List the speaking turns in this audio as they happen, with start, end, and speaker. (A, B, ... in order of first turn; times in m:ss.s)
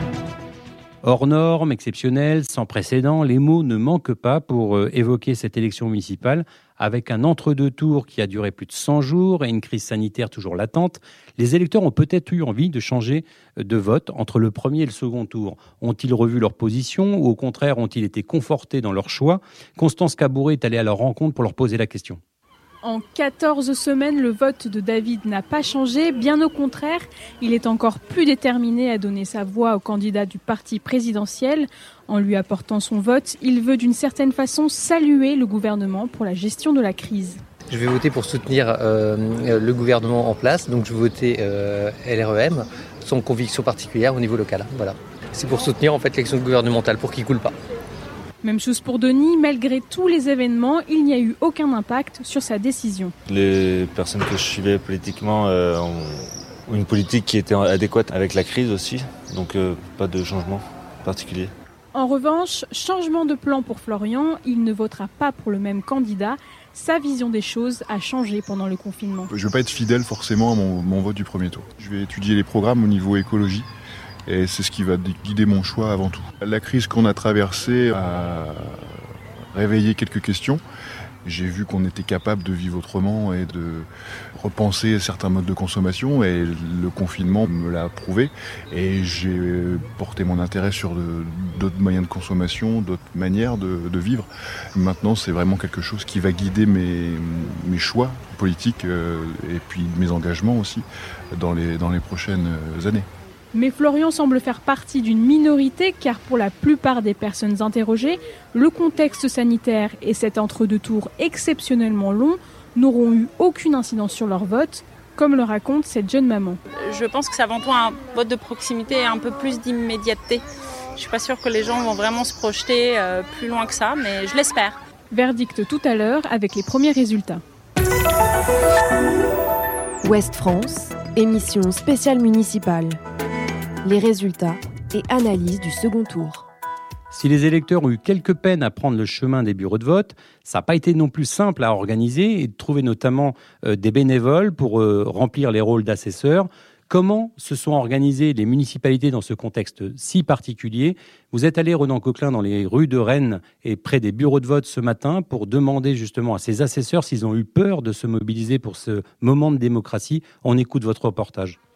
0:01.0-0:22.2 A
0:22.8-0:37.4 B
0:37.7-0:47.5 C
0:48.4-0:53.1 B
0:53.3-1:01.5 D
1:01.9-1:09.3 B
1:09.3-1:13.7 E
1:14.3-1:18.8 E
1:19.5-1:20.6 E
1:21.2-1:43.1 E
1:43.5-1:56.6 B
1:56.7-2:00.4 F
2:01.0-2:04.8 F
2:05.1-2:07.4 B
2:10.0-2:13.0 G
2:13.8-2:16.5 G
2:17.1-2:41.6 A